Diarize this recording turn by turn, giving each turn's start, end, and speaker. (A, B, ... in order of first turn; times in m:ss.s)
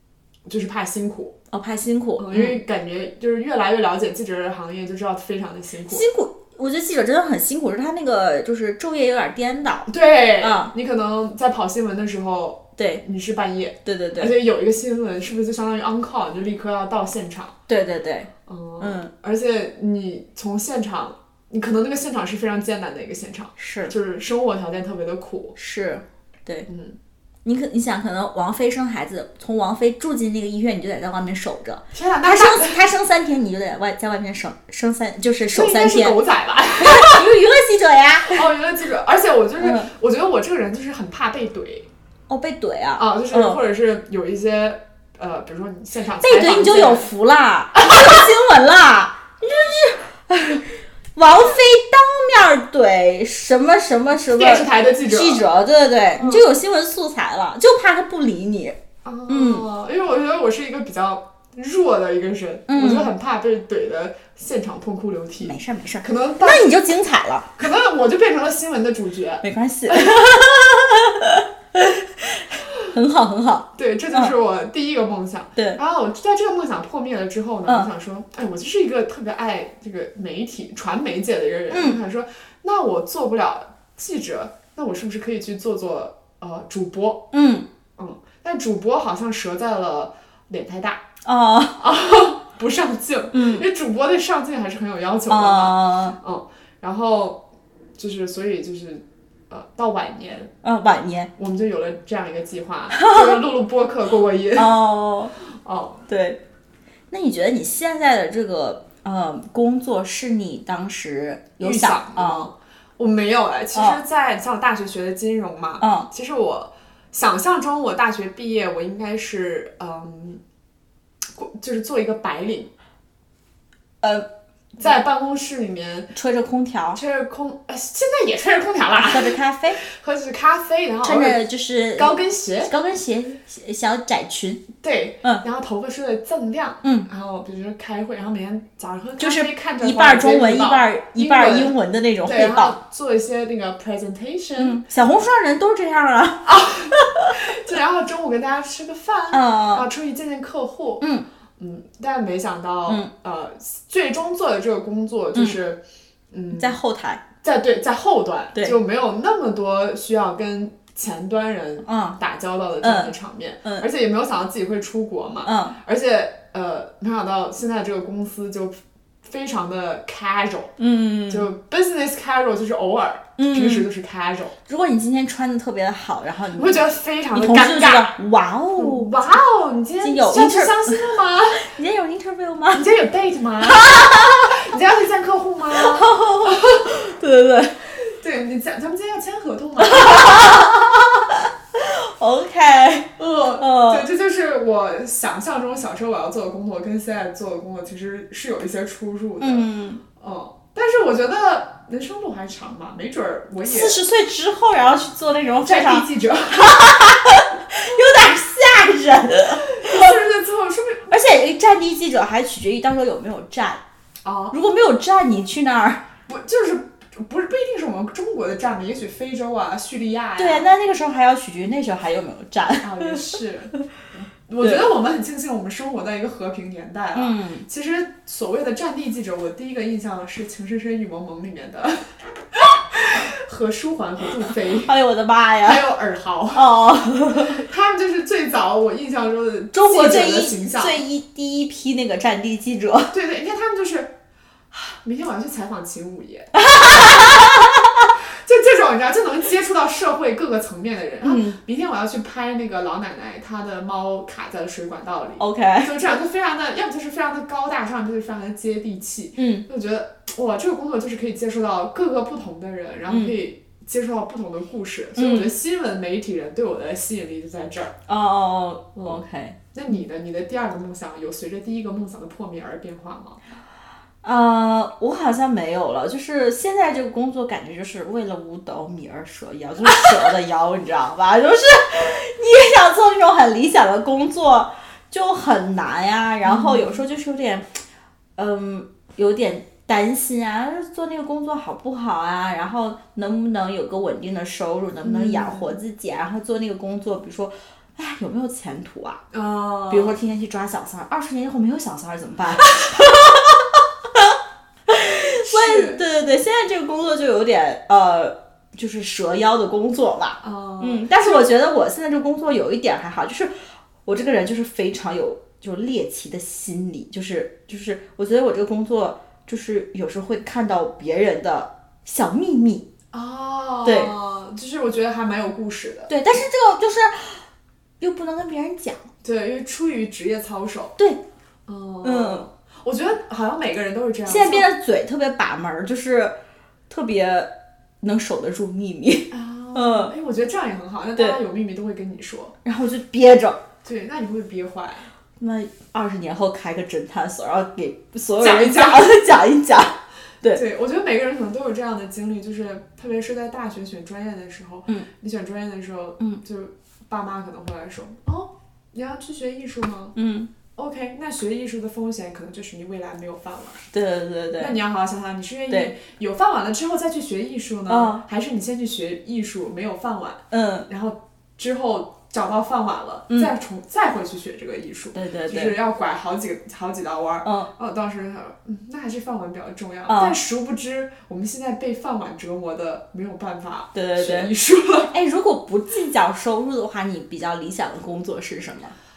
0:00.5-0:01.4 A
0:01.5-0:02.6 B
0:02.2-0:06.1 A
0:05.9-0:10.7 B
0:09.9-0:17.5 A
0:12.8-0:13.0 B
0:13.8-0:14.4 B
0:17.7-0:19.1 B
0:18.5-0:25.6 A
0:23.6-0:23.9 B
0:25.6-0:26.7 B
0:26.7-0:27.0 A
0:27.4-0:36.2 B
0:31.9-0:32.8 A
0:35.5-0:37.3 A
0:36.8-0:38.4 B
0:38.3-0:41.9 A
0:39.6-0:39.9 B
0:42.3-0:43.6 B
0:43.0-0:47.1 A
0:46.2-0:58.8 B
0:47.8-0:48.3 A
0:54.2-0:55.5 A
0:56.2-0:56.4 A
0:59.0-1:06.8 A
0:59.3-0:59.6 B
1:02.7-1:03.1 B
1:05.4-1:07.5 B
1:07.6-1:10.3 A
1:09.4-1:14.3 B
1:13.8-1:27.3 A
1:21.7-1:22.0 B
1:27.3-1:27.7 B
1:28.0-1:31.0 A
1:31.2-1:31.8 B
1:31.8-1:37.4 A
1:33.3-1:33.7 B
1:35.3-1:36.2 B
1:38.0-1:40.5 A
1:40.6-1:41.3 B
1:41.4-1:44.7 A
1:42.9-1:43.4 B
1:44.6-1:45.3 B
1:45.6-1:46.0 A
1:46.1-1:46.4 B
1:47.1-1:52.5 B
1:51.6-2:00.4 A
1:53.7-1:54.0 B
1:55.8-1:56.1 B
2:01.4-2:02.7 A
2:04.0-2:04.3 B
2:04.8-2:06.1 A
2:06.2-2:07.0 B
2:07.0-2:11.4 A
2:09.0-2:09.8 B
2:11.0-2:14.7 B
2:12.0-2:12.7 A
2:14.8-2:24.8 A
2:16.8-2:17.1 B
2:19.2-2:22.8 B
2:24.6-2:27.4 B
2:26.4-2:31.0 A
2:29.3-2:29.9 B
2:31.6-2:36.8 A
2:36.5-2:37.2 B
2:37.4-2:50.7 A
2:41.8-2:42.2 B
2:42.8-2:43.1 B
2:45.4-2:45.8 B
2:50.8-2:51.5 B
2:51.3-2:54.6 A
2:53.4-2:53.9 B
2:54.7-2:59.2 B
2:56.5-2:58.2 A
2:58.8-3:01.7 A
3:00.0-3:01.0 B
3:01.6-3:02.9 B
3:02.7-3:06.8 A
3:03.7-3:04.6 B
3:05.7-3:07.9 B
3:08.0-3:10.7 A
3:09.8-3:14.1 B
3:13.2-3:24.0 A
3:19.4-3:20.0 B
3:23.6-3:30.2 B
3:25.6-3:27.0 A
3:29.7-3:31.1 A
3:31.1-3:33.8 B
3:34.2-3:34.6 A
3:34.5-3:36.0 B
3:36.3-3:40.7 A
3:40.4-3:43.3 B
3:42.8-3:43.7 A
3:44.5-3:54.9 A
3:44.6-3:44.9 B
3:47.2-3:47.6 B
3:54.8-3:55.8 B
3:55.6-3:56.7 A
3:56.5-3:57.6 B
3:57.3-4:01.0 A
3:59.7-4:03.2 B
4:03.1-4:04.2 A
4:04.7-4:07.3 A
4:06.6-4:08.1 B
4:08.3-4:28.0 A
4:11.2-4:11.6 B
4:15.4-4:15.9 B
4:19.4-4:19.7 B
4:23.1-4:23.4 B
4:25.2-4:25.5 B
4:28.1-4:29.6 B
4:29.0-4:29.2 A
4:29.7-4:33.4 A
4:34.2-4:47.7 B
4:46.4-4:47.0 A
4:48.4-4:59.2 B
4:55.0-4:55.8 A
4:59.3-5:00.2 A
4:59.9-5:04.3 B
5:04.9-5:13.5 B
5:05.4-5:06.0 A
5:10.4-5:11.5 A
5:14.1-5:22.9 B
5:23.1-5:26.1 A
5:23.8-5:24.1 B
5:26.1-5:27.4 B
5:28.0-5:29.1 B
5:29.2-5:31.0 A
5:31.7-5:34.7 A
5:32.0-5:32.4 B
5:34.3-5:36.4 B
5:36.9-5:40.1 B
5:39.3-5:42.6 A
5:42.6-5:43.6 B
5:43.8-5:45.1 A
5:45.4-5:50.6 B
5:48.4-5:49.2 A
5:50.5-6:00.2 A
6:00.2-6:00.5 B
6:00.8-6:03.8 A
6:03.9-6:04.8 B
6:04.6-6:25.1 A
6:07.9-6:08.2 B
6:10.5-6:10.9 B
6:15.2-6:15.8 B
6:17.4-6:17.7 B
6:20.1-6:20.4 B
6:23.9-6:24.5 B
6:25.1-6:29.0 B